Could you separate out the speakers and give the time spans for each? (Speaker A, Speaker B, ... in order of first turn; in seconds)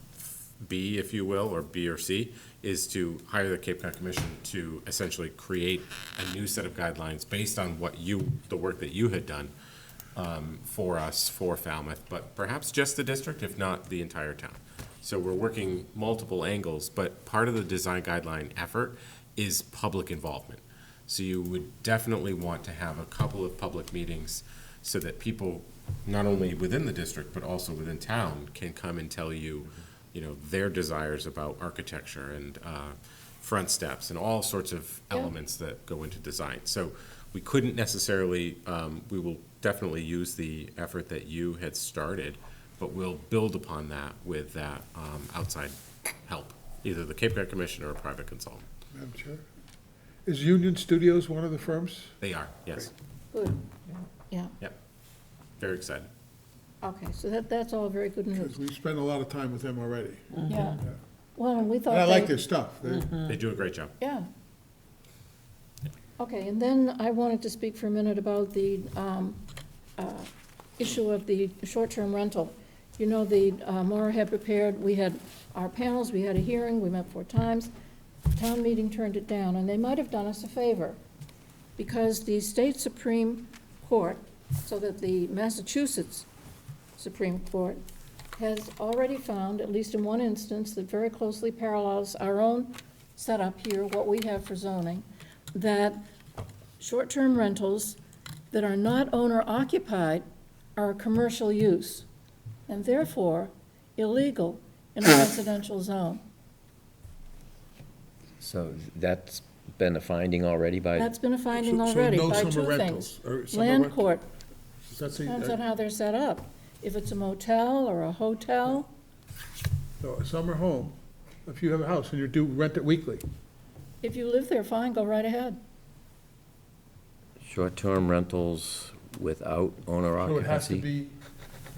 Speaker A: 0.6-9.5, 10.2-48.6, 52.2-52.9, 55.6-56.1, 63.2-63.9
Speaker B: 48.9-49.5, 50.3-52.1, 58.4-60.9, 61.9-63.2, 111.5-114.0, 114.9-115.6, 120.0-123.2, 130.2-131.2
Speaker C: 53.3-53.6, 56.8-58.5, 60.5-60.8, 61.4-62.3, 64.0-64.3, 66.2-69.4, 70.0-77.7, 78.3-81.0, 81.8-86.3, 87.0-87.8, 88.4-96.0, 96.8-98.0, 98.5-100.2, 100.8-102.1, 102.7-106.2, 111.0-114.3, 115.2-118.9, 124.0-125.6
Speaker D: 108.4-111.1, 127.4-130.9